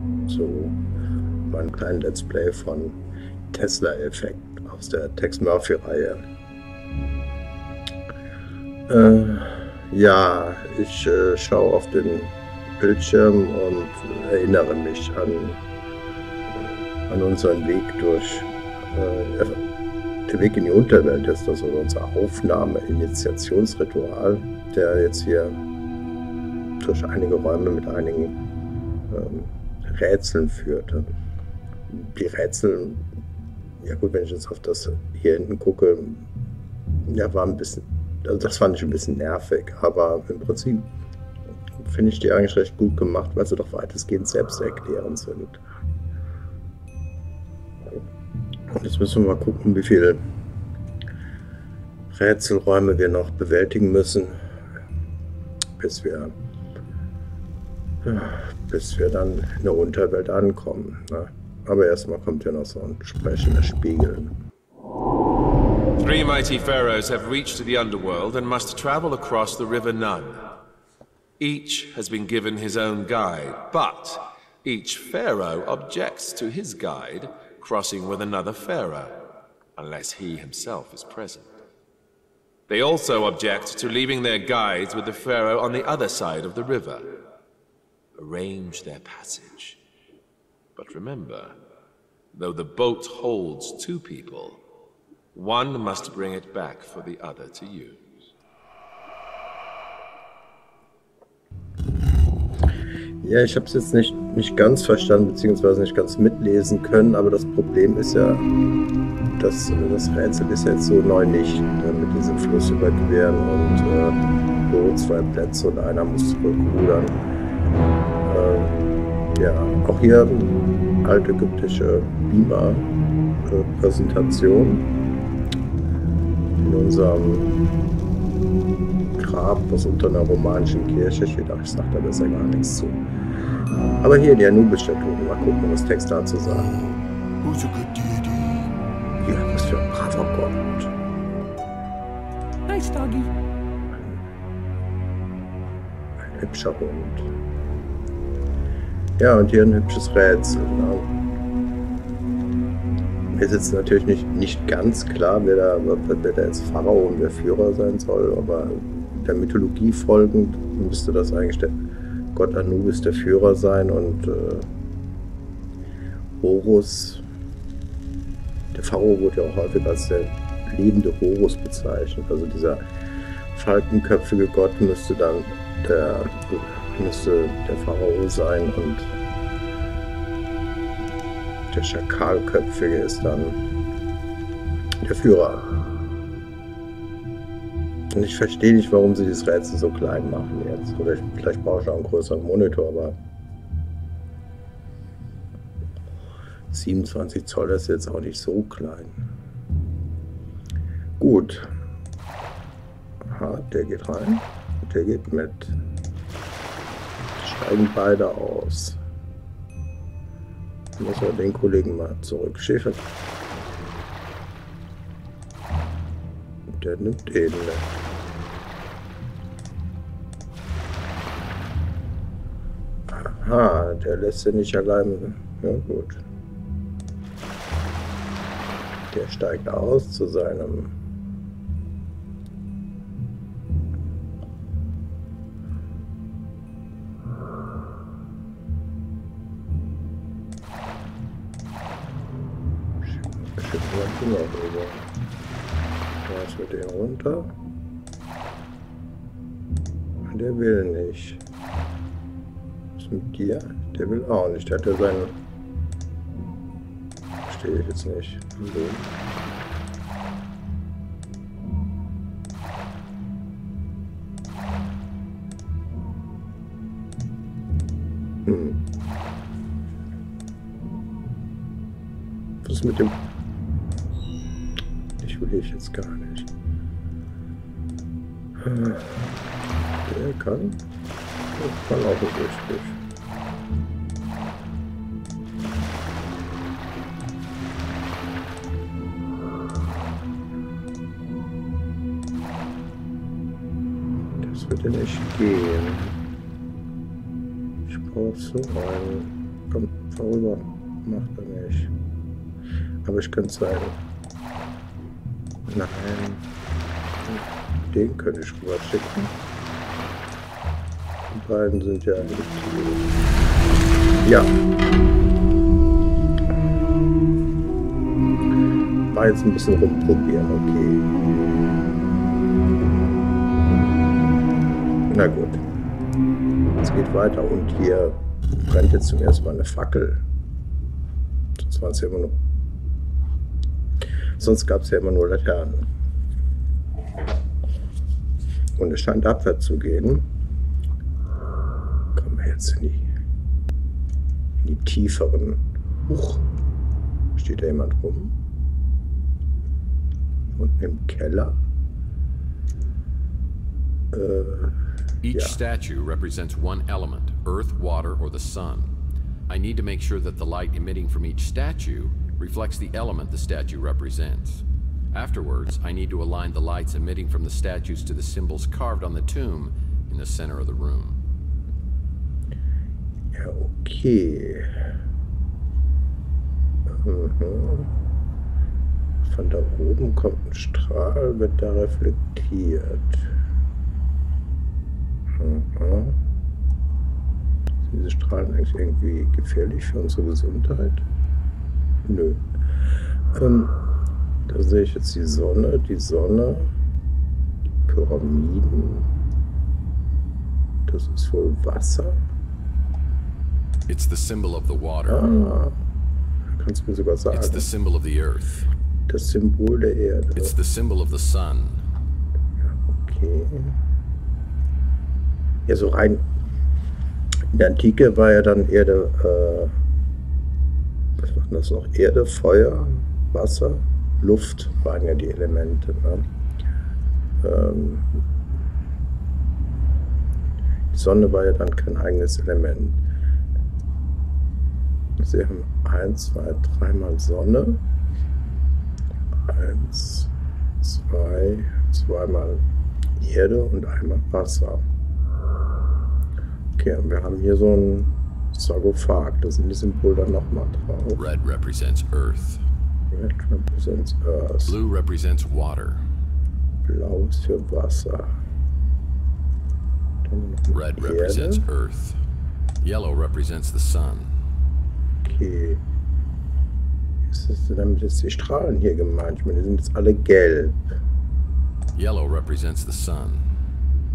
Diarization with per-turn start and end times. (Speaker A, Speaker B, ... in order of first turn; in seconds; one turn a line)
Speaker A: 0.3-0.8
Speaker A: 1.5-3.0
Speaker A: 3.5-6.2
Speaker A: 8.9-15.6
Speaker A: 17.1-19.6
Speaker A: 20.3-25.6
Speaker A: 26.8-28.4
Speaker A: 29.1-31.1
Speaker A: 31.9-33.0
Speaker A: 33.8-36.3
Speaker A: 37.1-40.9
Speaker A: 41.8-45.6
Speaker A: 48.7-50.2
Speaker A: 52.1-54.4
Speaker A: 55.8-56.3
Speaker A: 58.0-64.3
Speaker B: 66.0-70.5
Speaker B: 71.4-79.2
Speaker B: 79.8-81.5
Speaker B: 82.7-87.1
Speaker B: 88.2-89.8
Speaker B: 90.8-91.6
Speaker B: 92.3-94.6
Speaker B: 95.3-98.0
Speaker A: 103.2-108.5
Speaker A: 109.4-117.2
Speaker A: 118.2-118.8
Speaker A: 119.3-122.9
Speaker A: 123.5-124.9
Speaker A: 126.6-127.5
Speaker A: 129.2-133.0
Speaker A: 134.0-136.9
Speaker A: 139.2-140.9
Speaker A: 143.9-144.2
Speaker A: 146.2-147.3
Speaker A: 149.2-151.1
Speaker A: 153.3-161.7
Speaker A: 162.3-164.7
Speaker A: 166.4-167.2
Speaker A: 168.7-172.8
Speaker A: 173.5-179.1
Speaker A: 181.7-183.6
Speaker A: 185.0-185.9
Speaker A: 188.1-193.2
Speaker A: 196.7-199.2
Speaker A: 201.2-201.7
Speaker A: 203.3-205.8
Speaker A: 207.4-209.0
Speaker A: 211.0-213.0
Speaker A: 216.8-218.0
Speaker A: 223.1-226.2
Speaker A: 229.1-230.9
Speaker A: 243.0-245.1
Speaker A: 246.3-247.5
Speaker A: 250.2-251.4
Speaker A: 253.0-255.4
Speaker A: 257.5-259.1
Speaker A: 268.5-268.8
Speaker A: 272.6-273.1
Speaker A: 275.2-276.5
Speaker A: 278.6-279.3
Speaker A: 280.0-280.8
Speaker A: 281.6-283.0
Speaker A: 294.4-296.2
Speaker A: 297.9-301.9
Speaker A: 303.1-304.0
Speaker A: 305.7-306.4
Speaker A: 307.3-309.3
Speaker A: 311.3-313.1
Speaker A: 314.2-314.6
Speaker A: 319.1-321.1
Speaker A: 325.1-325.6
Speaker A: 326.8-330.2
Speaker A: 331.6-332.4
Speaker A: 334.4-335.9
Speaker A: 338.8-340.3
Speaker A: 342.1-343.1
Speaker A: 344.6-346.5
Speaker A: 347.4-348.3
Speaker A: 350.5-351.6
Speaker A: 354.1-354.8
Speaker C: 355.2-358.9
Speaker A: 355.3-355.6
Speaker C: 359.5-371.2
Speaker A: 373.4-374.7
Speaker A: 377.0-377.9
Speaker A: 379.2-383.3
Speaker A: 385.4-386.2
Speaker A: 387.9-391.0
Speaker A: 392.1-392.4
Speaker A: 393.3-393.8
Speaker A: 394.5-396.7
Speaker A: 397.9-399.1
Speaker A: 400.9-402.2
Speaker C: 403.9-405.3
Speaker A: 405.1-405.8
Speaker A: 406.6-407.7
Speaker C: 407.3-408.7
Speaker A: 409.1-410.6
Speaker C: 410.4-411.8
Speaker A: 412.8-413.8
Speaker A: 415.7-416.2
Speaker A: 417.5-419.7
Speaker A: 421.2-426.2
Speaker A: 427.4-428.2
Speaker A: 430.9-433.0
Speaker A: 435.2-437.8
Speaker A: 439.5-440.3
Speaker A: 440.8-442.6
Speaker A: 443.2-444.8
Speaker A: 446.8-451.2
Speaker C: 451.2-452.6
Speaker A: 453.1-454.8
Speaker C: 454.7-456.0
Speaker A: 456.9-458.3
Speaker A: 460.2-461.6
Speaker C: 460.7-462.2
Speaker C: 462.8-464.3
Speaker A: 465.2-465.8
Speaker A: 467.3-470.8
Speaker C: 471.9-473.4